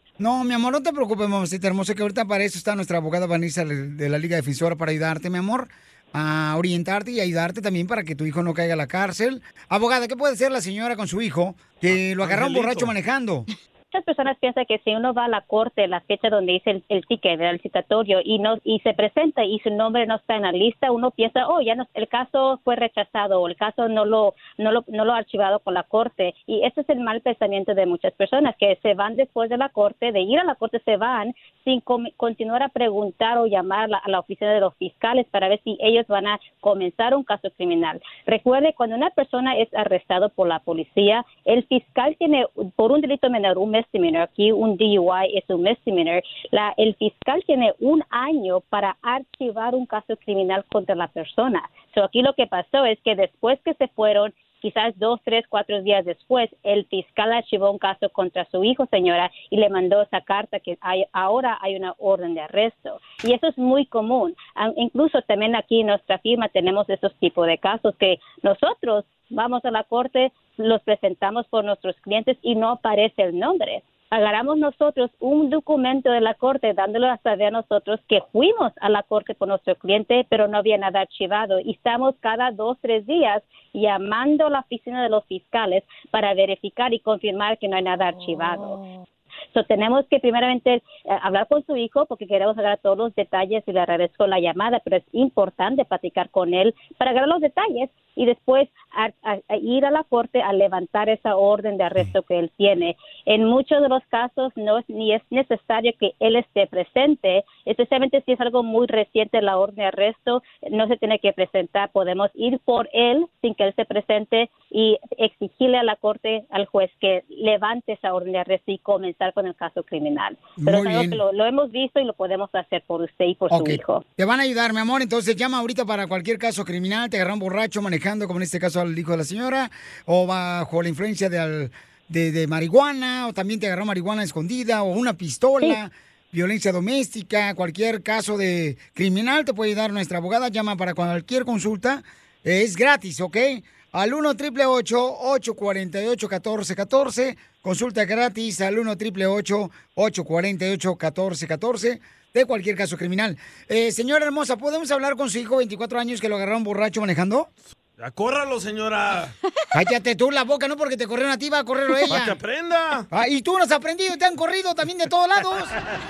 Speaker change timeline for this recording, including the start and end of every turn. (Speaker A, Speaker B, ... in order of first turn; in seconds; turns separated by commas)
Speaker A: 0.2-13.5, Speaker B: 12.2-12.9, Speaker C: 13.9-88.8, Speaker C: 89.5-124.0, Speaker A: 120.6-121.2, Speaker A: 123.5-157.5, Speaker B: 158.0-159.3, Speaker A: 159.7-162.4, Speaker B: 162.1-163.1, Speaker A: 163.1-165.8